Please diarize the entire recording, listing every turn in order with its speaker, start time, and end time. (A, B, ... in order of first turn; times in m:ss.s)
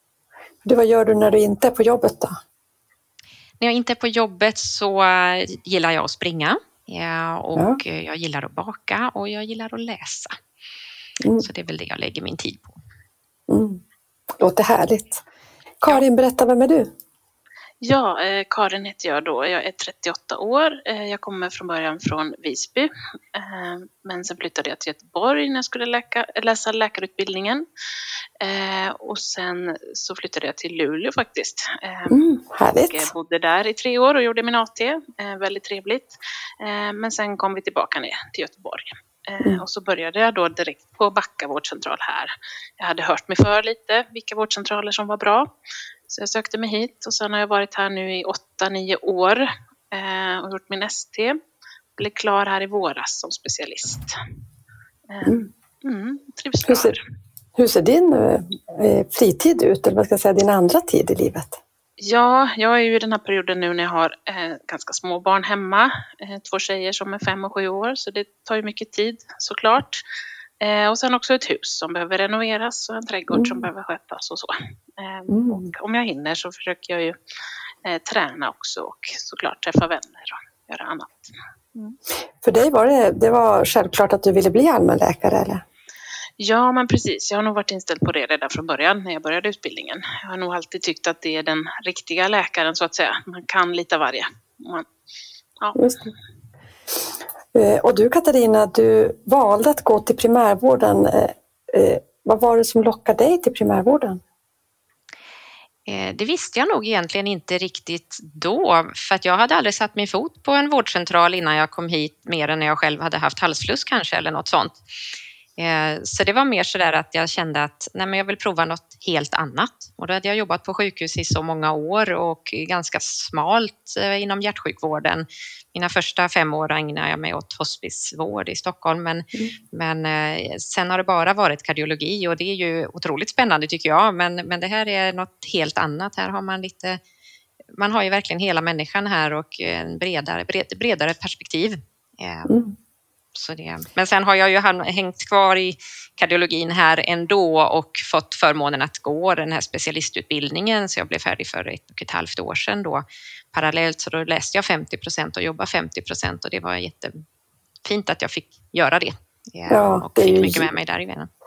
0:00.6-0:02.4 A
0:03.6-0:10.4 B
0:11.2-0:11.5 A
0:11.4-0:12.8 B
0:13.5-0:13.8 A
0:14.4-0:15.2 A
0:15.8-0:16.9 A
0:17.8-0:27.6 C
0:28.4-0:32.2 C
0:32.1-0:33.1 A
0:32.9-0:45.5 C
0:46.1-0:51.4 C
0:52.0-0:54.2 C
0:55.1-0:57.0 C
0:56.6-0:57.0 A
0:57.6-1:01.6 A
1:02.0-1:10.0 C
1:10.6-1:17.1 C
1:13.3-1:13.7 A
1:15.3-1:15.7 A
1:17.8-1:21.9 C
1:22.4-1:25.6 A
1:26.4-1:34.8 C
1:35.8-1:36.1 A
1:37.5-1:44.2 A
1:45.8-1:54.8 B
1:55.6-2:17.0 B
2:17.8-2:22.5 B
2:22.5-2:22.7 A
2:23.3-2:37.2 B
2:37.8-2:41.3 B
2:39.7-2:40.7 A